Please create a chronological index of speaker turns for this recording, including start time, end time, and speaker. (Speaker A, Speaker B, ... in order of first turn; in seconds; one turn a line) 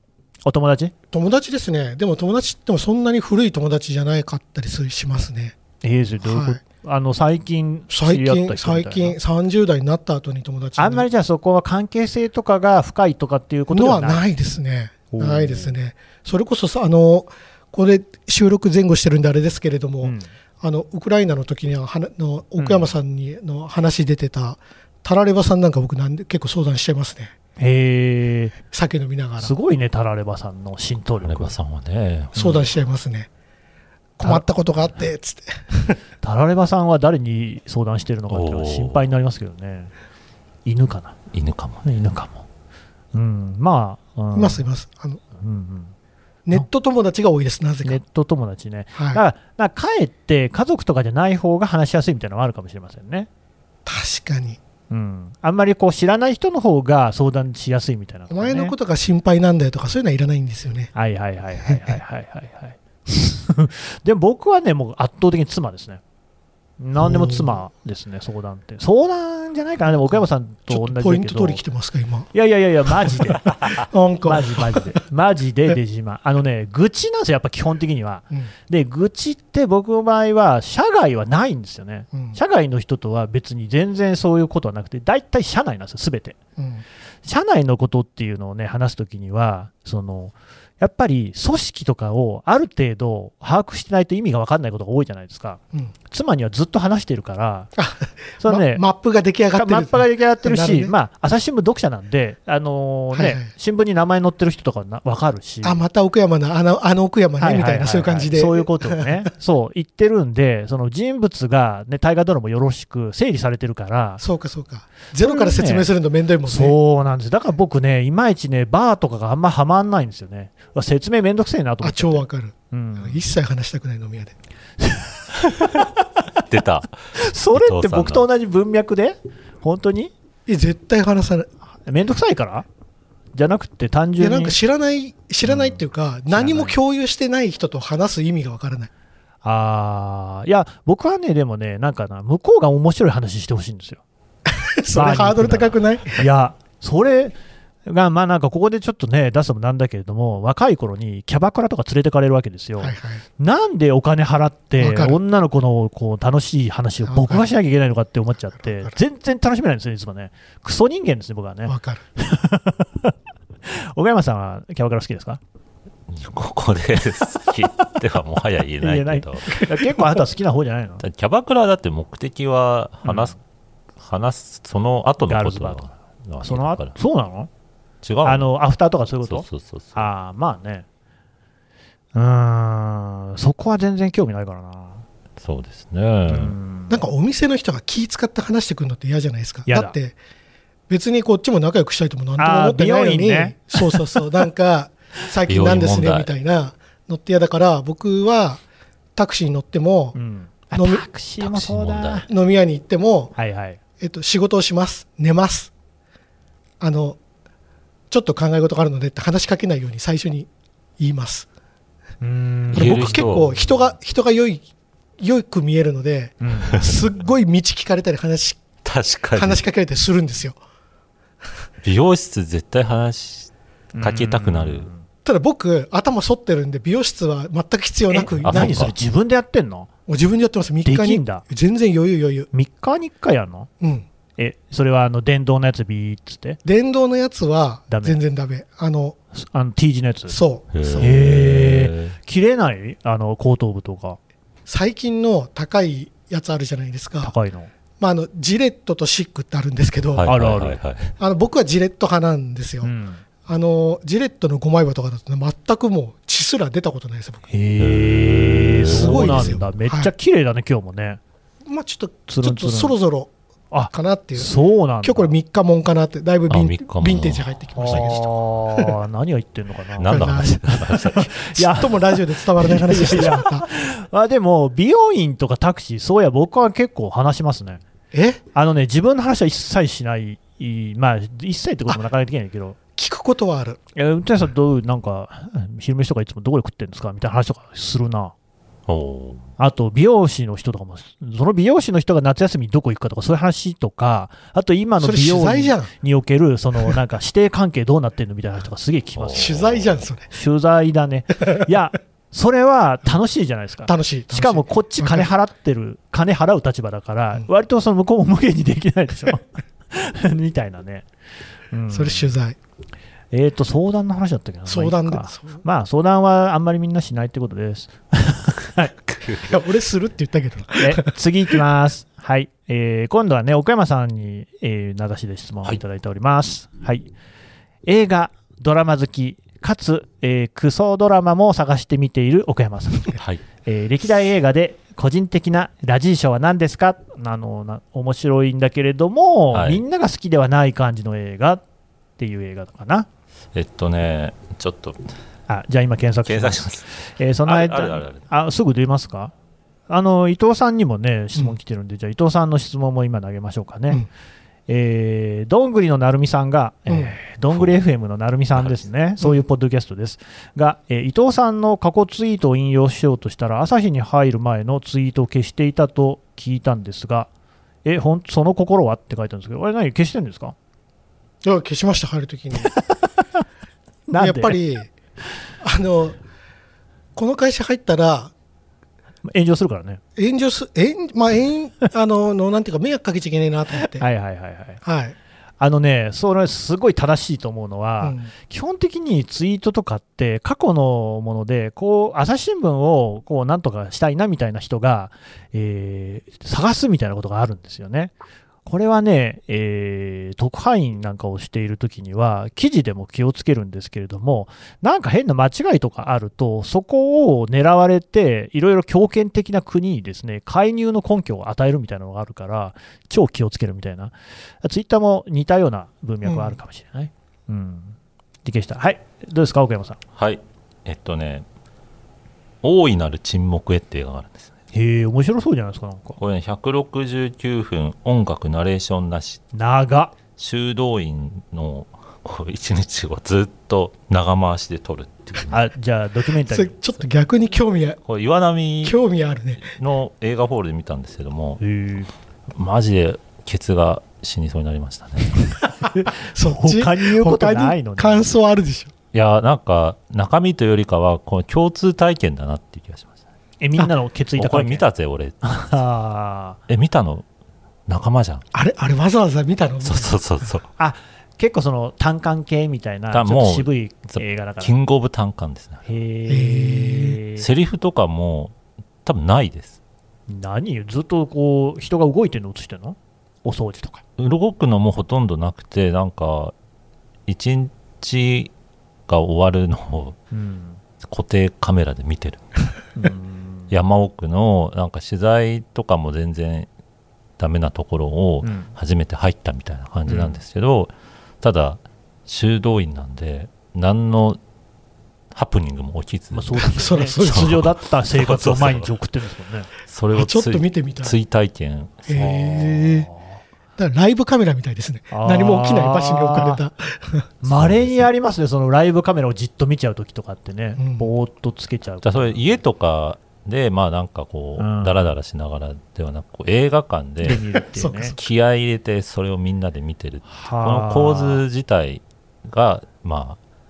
Speaker A: 0.5-0.9
Speaker B: 1.1-5.5
Speaker A: 5.8-9.2
Speaker B: 6.2-6.6
Speaker B: 7.9-11.1
Speaker A: 10.8-14.2
Speaker B: 13.7-27.3
Speaker A: 15.1-15.8
Speaker A: 20.0-20.3
Speaker A: 22.6-22.9
Speaker A: 27.6-28.5
Speaker B: 28.7-29.5
Speaker A: 29.4-31.5
Speaker C: 31.2-32.3
Speaker B: 32.3-33.3
Speaker B: 34.2-36.0
Speaker A: 36.2-39.9
Speaker C: 38.3-39.0
Speaker A: 40.6-41.1
Speaker C: 41.3-41.9
Speaker A: 41.8-42.4
Speaker A: 43.1-44.6
Speaker B: 44.3-45.2
Speaker A: 45.4-45.9
Speaker B: 46.5-48.0
Speaker A: 47.8-53.3
Speaker B: 48.9-49.2
Speaker B: 53.9-54.6
Speaker A: 54.9-58.7
Speaker B: 58.3-60.9
Speaker A: 60.9-66.0
Speaker B: 61.6-61.9
Speaker A: 66.8-71.6
Speaker B: 67.0-67.6
Speaker B: 69.9-72.3
Speaker A: 72.3-86.4
Speaker B: 72.9-74.9
Speaker B: 82.1-82.4
Speaker B: 86.6-86.8
Speaker A: 87.2-95.6
Speaker A: 96.1-97.7
Speaker B: 97.8-100.9
Speaker A: 98.4-98.8
Speaker A: 99.5-105.8
Speaker B: 103.1-103.5
Speaker B: 105.6-109.3
Speaker A: 107.4-114.2
Speaker B: 114.2-116.8
Speaker A: 115.2-115.9
Speaker A: 116.5-123.2
Speaker B: 121.8-124.3
Speaker A: 124.8-125.9
Speaker C: 126.5-128.3
Speaker A: 127.2-130.1
Speaker B: 130.5-131.5
Speaker A: 131.8-132.7
Speaker A: 133.3-134.6
Speaker B: 134.2-138.9
Speaker A: 135.4-136.8
Speaker A: 139.4-144.0
Speaker B: 144.5-146.2
Speaker A: 144.9-163.1
Speaker B: 152.8-153.2
Speaker B: 154.8-155.2
Speaker B: 157.0-157.5
Speaker B: 158.6-158.9
Speaker B: 161.7-162.0
Speaker A: 163.6-165.4
Speaker C: 166.1-169.6
Speaker A: 168.8-171.0
Speaker C: 171.0-173.3
Speaker A: 173.0-173.3
Speaker C: 174.0-176.9
Speaker A: 175.2-175.8
Speaker A: 176.4-177.5
Speaker C: 178.0-178.5
Speaker A: 178.2-180.8
Speaker C: 179.2-180.1
Speaker A: 182.1-185.0
Speaker C: 185.4-186.5
Speaker A: 186.3-187.0
Speaker B: 186.9-190.2
Speaker A: 189.7-189.9
Speaker B: 190.9-198.6
Speaker A: 192.4-194.0
Speaker C: 195.5-196.3
Speaker B: 199.2-200.2
Speaker A: 200.1-202.3
Speaker B: 200.7-201.0
Speaker C: 201.4-202.2
Speaker B: 202.3-203.3
Speaker A: 203.3-203.8
Speaker B: 204.0-205.7
Speaker B: 206.8-207.2
Speaker B: 208.1-211.5
Speaker A: 212.2-213.3
Speaker C: 212.7-213.7
Speaker B: 212.7-214.6
Speaker B: 215.2-218.6
Speaker A: 216.4-216.8
Speaker C: 218.8-219.6
Speaker B: 219.3-220.6
Speaker C: 221.8-224.9
Speaker A: 223.9-225.0
Speaker B: 225.2-228.9
Speaker A: 228.1-229.9
Speaker C: 228.4-228.9
Speaker B: 230.1-232.5
Speaker A: 230.8-231.4
Speaker A: 232.5-233.7
Speaker B: 233.8-234.1
Speaker A: 234.4-236.6
Speaker B: 236.6-239.2
Speaker A: 237.9-238.2
Speaker A: 239.3-240.4
Speaker B: 240.3-241.1
Speaker C: 240.7-242.2
Speaker A: 241.0-244.2
Speaker B: 244.7-247.3
Speaker A: 247.2-247.7
Speaker B: 248.0-250.3
Speaker C: 250.2-251.1
Speaker A: 250.2-250.8
Speaker B: 251.2-252.9
Speaker A: 252.8-253.2
Speaker B: 253.4-257.5
Speaker A: 257.5-261.2
Speaker C: 257.8-259.6
Speaker B: 258.9-260.1
Speaker B: 261.6-263.3
Speaker A: 262.3-263.0
Speaker A: 263.7-265.3
Speaker B: 263.9-268.9
Speaker C: 266.5-268.1
Speaker A: 267.8-277.8
Speaker C: 270.0-271.3
Speaker B: 270.1-273.6
Speaker B: 278.1-278.4
Speaker A: 278.5-282.8
Speaker B: 282.9-283.8
Speaker A: 283.9-288.3
Speaker C: 288.9-289.5
Speaker A: 289.6-299.6
Speaker B: 295.0-295.9
Speaker C: 299.1-300.0
Speaker B: 299.3-300.3
Speaker A: 300.3-311.1
Speaker B: 303.9-305.3
Speaker A: 311.7-312.3
Speaker B: 311.9-312.6
Speaker A: 313.3-318.9
Speaker B: 314.7-315.6
Speaker C: 319.1-319.4
Speaker B: 319.4-321.1
Speaker A: 320.8-327.1
Speaker A: 327.9-341.6
Speaker C: 333.1-333.4
Speaker C: 339.5-339.8
Speaker A: 342.2-343.1
Speaker C: 343.5-345.0
Speaker A: 345.5-349.3
Speaker C: 346.2-346.9
Speaker C: 347.4-348.2
Speaker A: 349.9-354.0
Speaker A: 354.7-367.3
Speaker B: 356.9-357.1
Speaker C: 357.5-357.8
Speaker C: 358.5-358.8
Speaker A: 367.8-370.5
Speaker B: 371.4-372.7
Speaker A: 374.1-374.6
Speaker B: 374.1-374.9
Speaker B: 375.6-376.2
Speaker B: 377.1-378.3
Speaker A: 379.2-380.0
Speaker B: 380.1-384.1
Speaker A: 383.9-384.8
Speaker B: 384.8-385.1
Speaker A: 385.6-398.1
Speaker B: 388.0-388.3
Speaker A: 398.6-420.0
Speaker B: 416.2-416.6
Speaker C: 420.1-421.4
Speaker C: 422.6-424.5
Speaker A: 424.7-426.2
Speaker C: 426.2-429.4
Speaker A: 429.5-430.1
Speaker C: 430.4-435.6
Speaker A: 435.5-436.8
Speaker B: 436.4-438.0
Speaker C: 438.1-439.0
Speaker B: 438.8-439.7
Speaker C: 439.6-441.6
Speaker A: 441.6-442.1
Speaker C: 442.5-445.5
Speaker A: 445.8-448.3
Speaker B: 445.9-448.9
Speaker C: 449.1-453.1
Speaker A: 453.6-454.9
Speaker C: 454.4-455.7
Speaker A: 455.4-456.6
Speaker C: 456.7-457.2
Speaker C: 457.9-458.4
Speaker B: 458.5-460.2
Speaker C: 459.8-460.7
Speaker A: 460.8-464.7
Speaker C: 463.1-465.9
Speaker A: 465.9-467.5
Speaker B: 466.3-467.2
Speaker C: 467.4-469.8
Speaker A: 470.3-474.0
Speaker C: 474.2-476.5
Speaker C: 477.3-478.5
Speaker C: 479.1-480.2
Speaker A: 480.3-480.8
Speaker C: 481.0-482.6
Speaker A: 482.9-483.7
Speaker C: 483.7-486.7
Speaker C: 487.4-494.4
Speaker A: 488.4-488.7
Speaker A: 490.1-490.4
Speaker C: 495.3-498.9
Speaker A: 496.3-499.7
Speaker B: 496.6-497.6
Speaker C: 499.9-502.1
Speaker B: 500.1-501.1
Speaker B: 502.1-503.1
Speaker A: 502.1-503.4
Speaker B: 503.8-507.3
Speaker A: 505.1-506.6
Speaker A: 507.4-512.5
Speaker C: 507.4-508.1
Speaker B: 510.8-511.1
Speaker C: 512.0-517.4
Speaker A: 514.6-515.1
Speaker A: 517.2-518.2
Speaker B: 517.7-518.2
Speaker C: 518.2-523.4
Speaker A: 520.3-521.4